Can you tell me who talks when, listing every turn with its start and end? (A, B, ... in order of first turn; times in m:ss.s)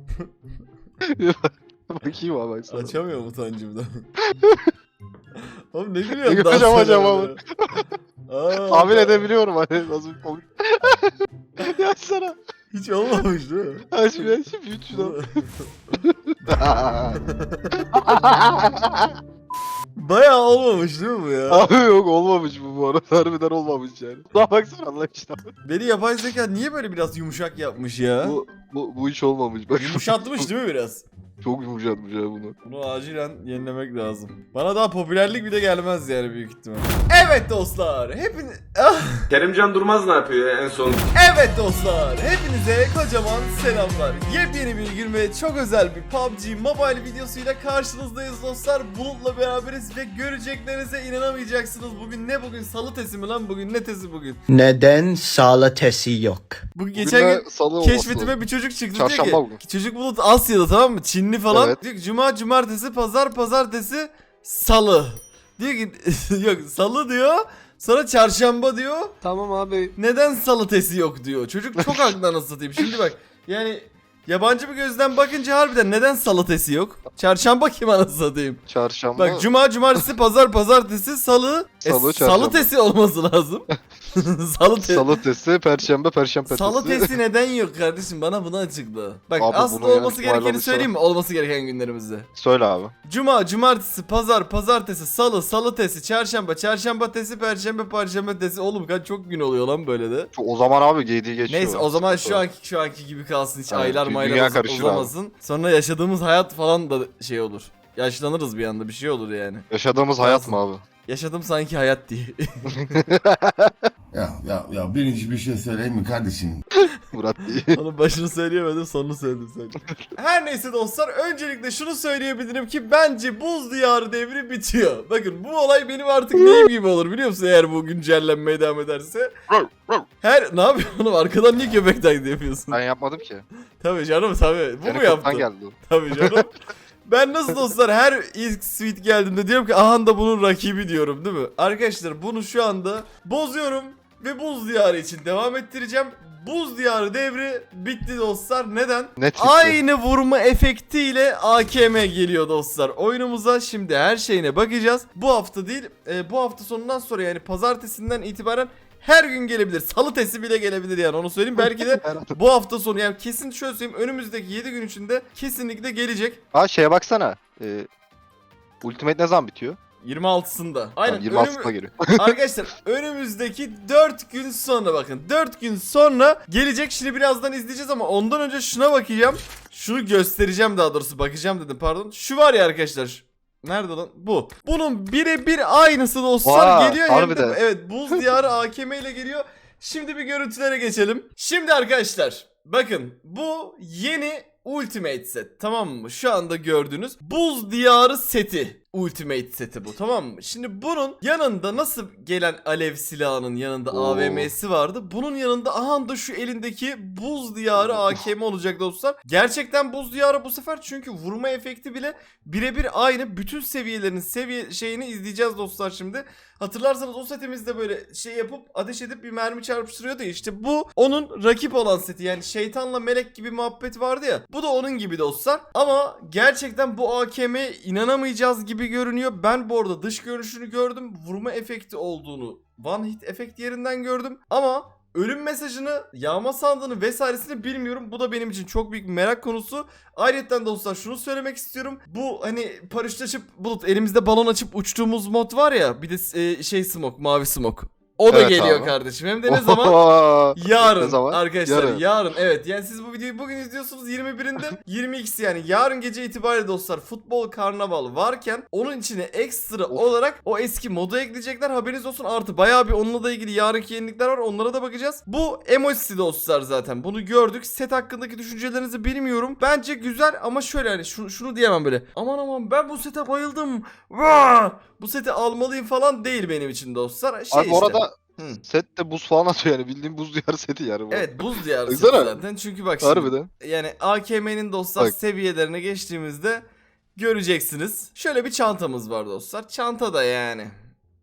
0:01.2-0:03.0 A
0:02.7-0:04.0 B
0:04.3-0:04.7 A
0:05.4-0:07.4 B
0:06.2-0:07.9 A
0:08.3-0:09.3 B
0:08.7-0:12.4 A
0:12.7-0:14.3 B
0:13.9-0:15.2 A
0:14.9-0:15.9 B
0:16.0-0:17.2 A
0:16.5-0:18.2 B
0:17.8-0:19.1 A
0:20.0-0:21.7 B
0:21.5-0:25.4 A
0:25.6-0:28.4 B
0:28.2-0:30.5 A
0:29.8-0:31.0 B
0:31.4-0:32.6 A
0:32.6-0:39.3 B
0:39.4-0:41.0 C
0:41.1-0:54.4 B
0:54.5-0:56.6 D
0:56.8-1:09.2 B
0:57.0-0:58.4 A
0:58.9-0:59.6 A
1:01.5-1:01.8 A
1:09.2-1:09.8 D
1:09.4-1:09.8 C
1:10.0-1:18.6 B
1:11.8-1:12.2 A
1:18.7-1:19.5 A
1:19.2-1:25.1 B
1:21.8-1:22.7 A
1:24.8-1:27.1 A
1:26.5-1:32.3 B
1:29.4-1:30.9 A
1:32.4-1:32.9 A
1:33.1-1:40.3 B
1:40.3-1:42.4 A
1:41.5-1:49.7 B
1:43.7-1:45.1 A
1:49.7-1:50.8 A
1:50.2-1:53.0 B
1:52.7-1:53.8 A
1:54.1-1:56.6 E
1:57.0-1:57.8 A
1:57.7-2:09.3 B
2:06.4-2:06.6 A
2:09.5-2:10.0 A
2:10.2-2:12.8 B
2:12.7-2:13.4 A
2:13.8-2:16.6 B
2:14.8-2:16.4 A
2:17.1-2:46.4 B
2:29.2-2:29.8 A
2:41.6-2:42.3 A
2:46.5-2:47.9 A
2:48.8-2:49.8 A
2:50.0-4:10.0 B
2:51.0-2:52.4 A
3:06.4-3:07.6 A
3:23.9-3:24.5 A
3:27.8-3:28.2 A
4:08.3-4:09.0 A
4:09.5-4:12.0 A
4:10.6-4:38.6 B
4:37.5-4:42.4 A
4:41.1-4:46.6 B
4:43.0-4:43.5 A
4:47.2-4:50.7 B